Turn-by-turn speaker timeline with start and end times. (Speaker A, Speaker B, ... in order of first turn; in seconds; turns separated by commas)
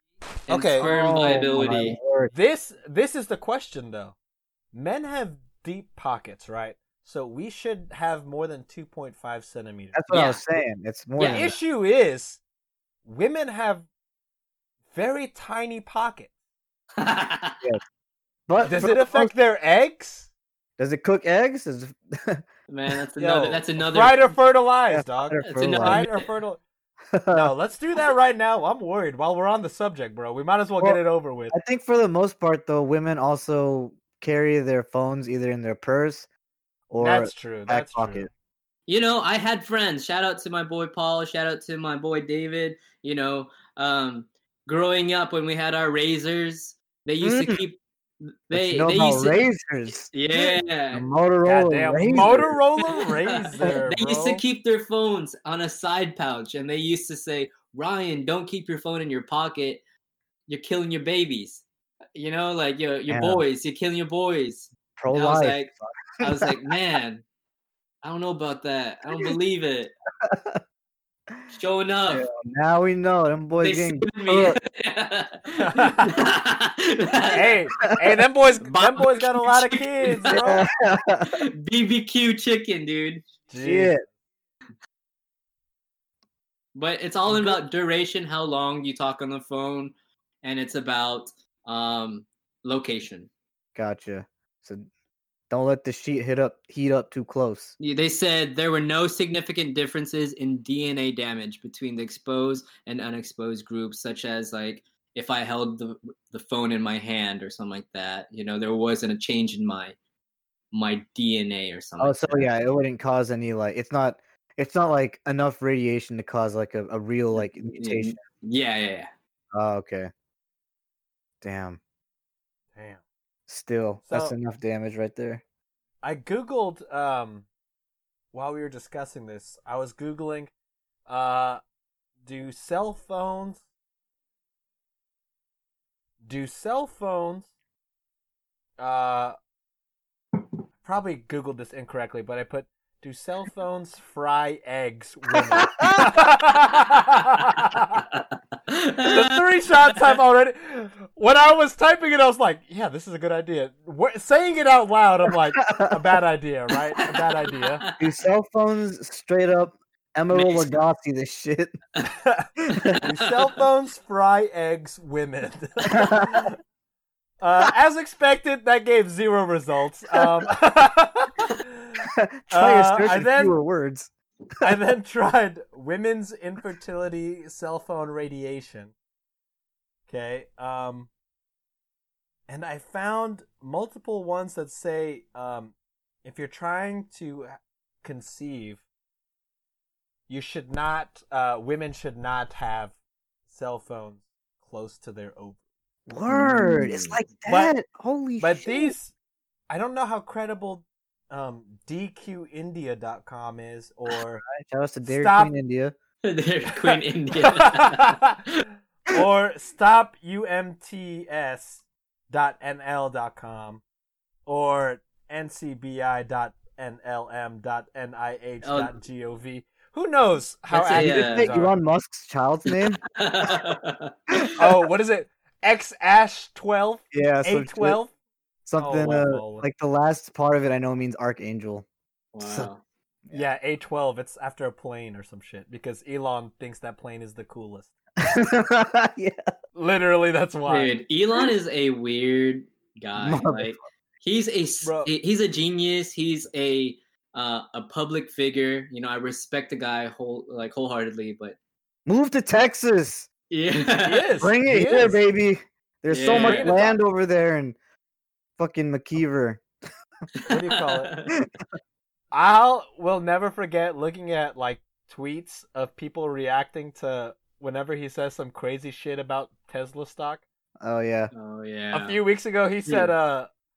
Speaker A: 0.5-2.0, Speaker B: 0.5-0.9, Speaker C: 0.8-2.3, Speaker B: 2.3-4.2, Speaker B: 4.7-10.0, Speaker C: 9.9-11.6, Speaker A: 10.1-10.4, Speaker A: 11.2-11.6, Speaker B: 11.2-12.4, Speaker B: 13.1-13.9, Speaker B: 14.9-16.3, Speaker A: 17.0-17.6, Speaker C: 18.5-19.3, Speaker B: 18.6-20.3, Speaker C: 20.8-22.4, Speaker A: 22.7-24.3, Speaker B: 23.2-26.6, Speaker C: 24.9-26.1, Speaker A: 25.4-26.3, Speaker C: 27.1-27.5, Speaker B: 27.3-31.6, Speaker C: 31.5-36.3, Speaker C: 36.9-38.3, Speaker B: 37.0-38.3, Speaker A: 38.9-49.5, Speaker C: 47.2-47.6, Speaker C: 48.5-52.6, Speaker A: 50.1-51.1, Speaker B: 51.5-54.4, Speaker A: 52.1-59.8, Speaker A: 60.5-61.6, Speaker A: 62.1-67.2, Speaker C: 63.1-63.4, Speaker C: 65.0-66.7, Speaker A: 68.0-69.9, Speaker C: 70.2-70.6, Speaker A: 71.5-72.3, Speaker C: 72.1-74.6, Speaker A: 73.6-77.8, Speaker B: 75.5-76.2, Speaker B: 77.3-80.7, Speaker A: 78.6-80.6, Speaker C: 80.3-81.4, Speaker A: 81.2-83.3, Speaker B: 83.5-84.0, Speaker C: 83.6-84.0, Speaker A: 86.8-93.3, Speaker C: 87.3-87.6, Speaker C: 93.8-94.8, Speaker C: 95.5-97.7, Speaker A: 97.8-110.0, Speaker A: 110.7-112.5, Speaker C: 112.0-118.2, Speaker A: 117.4-119.1, Speaker C: 119.5-120.1, Speaker C: 121.4-121.8, Speaker B: 122.8-123.0, Speaker C: 123.5-125.4, Speaker B: 124.0-124.4, Speaker B: 126.0-127.5, Speaker B: 128.3-130.5, Speaker B: 131.1-131.6, Speaker B: 132.2-133.6, Speaker B: 136.2-137.5, Speaker B: 138.8-139.4, Speaker B: 140.8-148.0, Speaker C: 145.5-146.1, Speaker A: 148.1-149.4, Speaker B: 149.1-157.8, Speaker C: 155.7-155.9, Speaker A: 157.2-158.1, Speaker C: 158.0-161.8, Speaker A: 160.3-160.7, Speaker B: 162.1-162.5, Speaker C: 162.6-163.0, Speaker B: 163.0-166.6, Speaker C: 165.9-166.5, Speaker B: 167.4-173.6, Speaker C: 172.2-174.1, Speaker B: 174.6-178.9, Speaker B: 180.1-181.1, Speaker B: 182.5-188.8, Speaker B: 190.3-193.0, Speaker B: 193.5-195.6, Speaker C: 196.1-198.9, Speaker A: 196.3-197.2, Speaker B: 197.5-197.7, Speaker B: 198.4-199.1, Speaker B: 199.7-204.4, Speaker C: 204.5-205.9, Speaker B: 205.1-205.5, Speaker A: 206.2-208.7, Speaker B: 206.9-208.4, Speaker B: 209.1-213.8, Speaker B: 214.5-221.8, Speaker A: 218.6-218.9, Speaker C: 220.7-223.0, Speaker A: 220.9-221.6, Speaker A: 222.7-224.1, Speaker B: 224.6-228.1, Speaker C: 227.1-228.0, Speaker C: 228.7-231.9, Speaker B: 228.8-229.7, Speaker A: 232.3-232.8, Speaker C: 232.4-232.7, Speaker B: 233.3-237.9, Speaker C: 238.2-239.4, Speaker B: 239.8-241.0, Speaker A: 240.7-251.6, Speaker C: 243.2-243.8, Speaker B: 244.8-245.1, Speaker C: 252.1-253.3, Speaker A: 253.5-254.3, Speaker B: 254.0-255.2, Speaker C: 254.4-257.8, Speaker A: 256.1-257.0, Speaker B: 256.3-256.9, Speaker C: 258.6-259.6, Speaker A: 260.4-261.3, Speaker B: 260.5-261.1, Speaker B: 262.3-270.4, Speaker C: 270.8-271.3, Speaker A: 271.3-272.2, Speaker B: 271.9-273.5, Speaker A: 272.9-273.1